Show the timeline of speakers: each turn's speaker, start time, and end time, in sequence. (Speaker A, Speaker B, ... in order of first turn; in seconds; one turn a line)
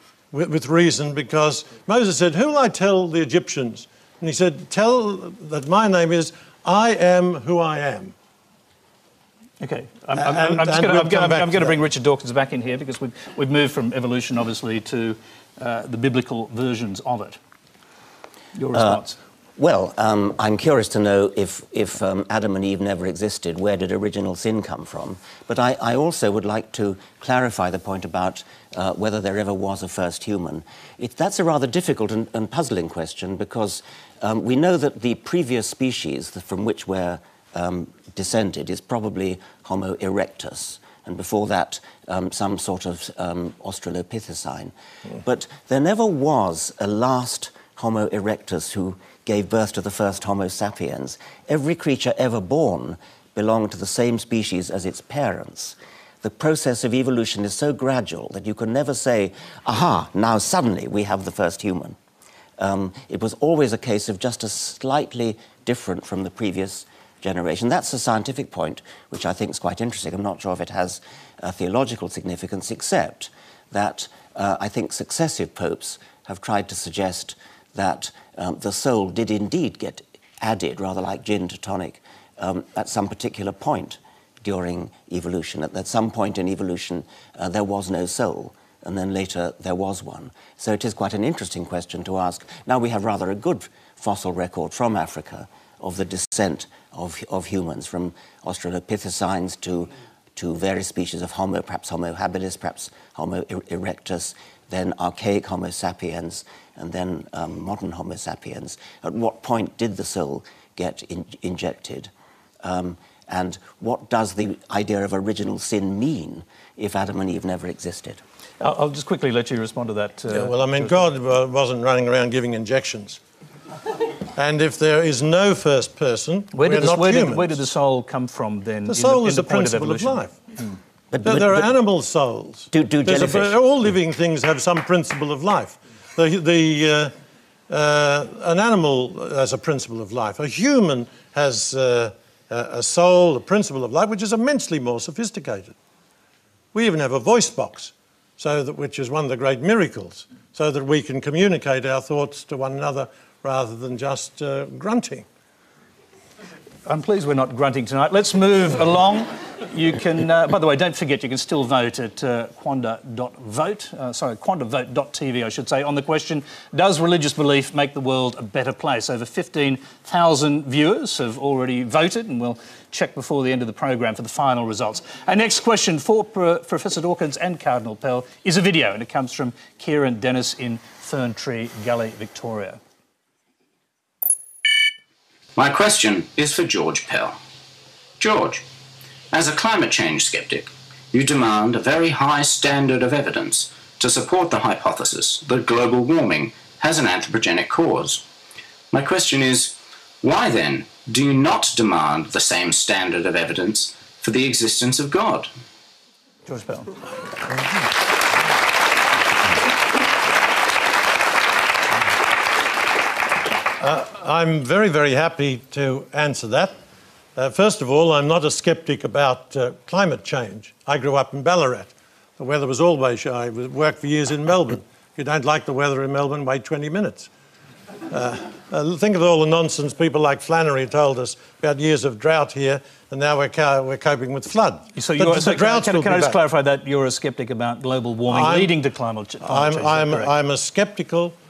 Speaker A: 0.3-8.1
Speaker B: 9.6-17.4
Speaker A: 10.1-11.8
Speaker B: 18.5-19.2
Speaker C: 18.7-19.0
Speaker C: 19.6-62.0
Speaker C: 62.6-112.1
Speaker C: 112.6-118.2
Speaker B: 118.6-121.0
Speaker A: 120.3-123.2
Speaker A: 124.4-127.6
Speaker B: 126.5-130.7
Speaker A: 128.9-130.3
Speaker C: 131.1-131.7
Speaker A: 131.2-137.1
Speaker C: 132.7-133.6
Speaker A: 137.7-145.8
Speaker A: 146.7-155.3
Speaker B: 156.8-182.8
Speaker D: 185.6-187.4
Speaker D: 188.2-188.7
Speaker D: 189.3-198.2
Speaker D: 198.9-205.5
Speaker B: 206.5-206.9
Speaker A: 213.8-216.7
Speaker A: 217.4-227.3
Speaker A: 228.1-236.4
Speaker B: 234.9-240.3
Speaker A: 238.3-238.8
Speaker A: 239.4-241.4